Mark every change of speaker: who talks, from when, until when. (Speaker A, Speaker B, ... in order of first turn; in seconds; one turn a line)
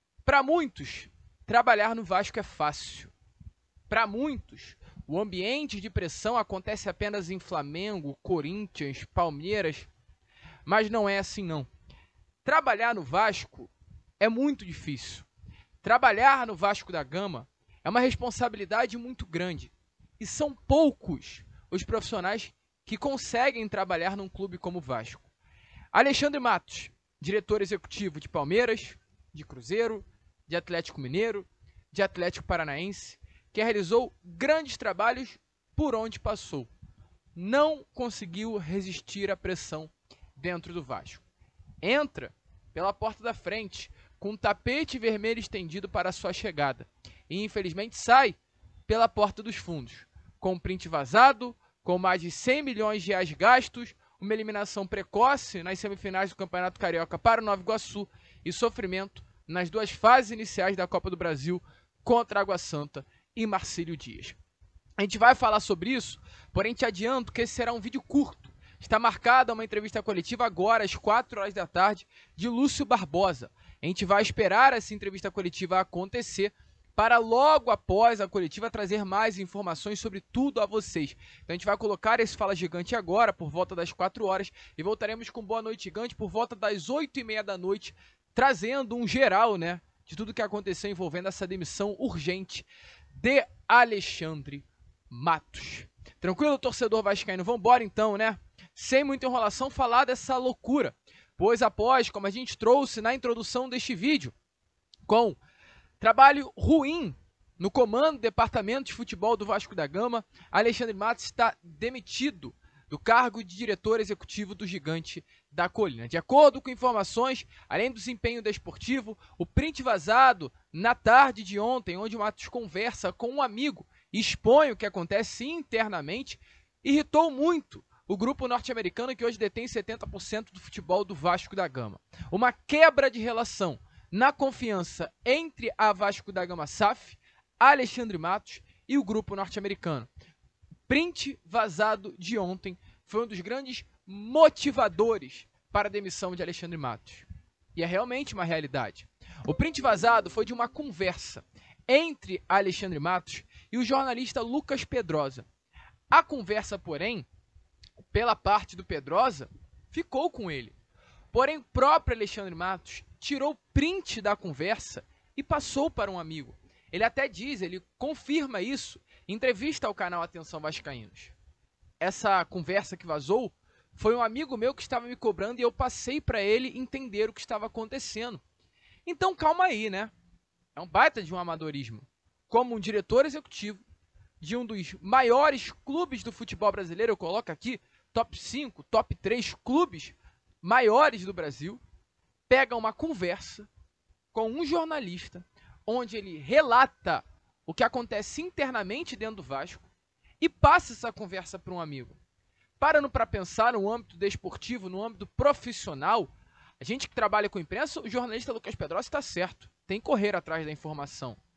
Speaker A: 0.2-3.1
Speaker A: 3.9-9.9
Speaker A: 10.7-11.7
Speaker A: 12.4-15.3
Speaker A: 15.8-25.3
Speaker A: 25.9-36.7
Speaker A: 37.3-41.2
Speaker A: 41.8-64.3
Speaker A: 65.0-104.3
Speaker A: 105.1-105.4
Speaker A: 106.0-140.1
Speaker A: 140.9-155.4
Speaker A: 156.1-157.3
Speaker A: 158.1-160.7
Speaker A: 161.3-171.3
Speaker A: 172.0-178.4
Speaker A: 179.1-180.1
Speaker A: 180.8-183.8
Speaker A: 184.4-191.8
Speaker A: 192.5-193.7
Speaker A: 194.3-199.9
Speaker A: 200.4-202.2
Speaker A: 202.8-211.4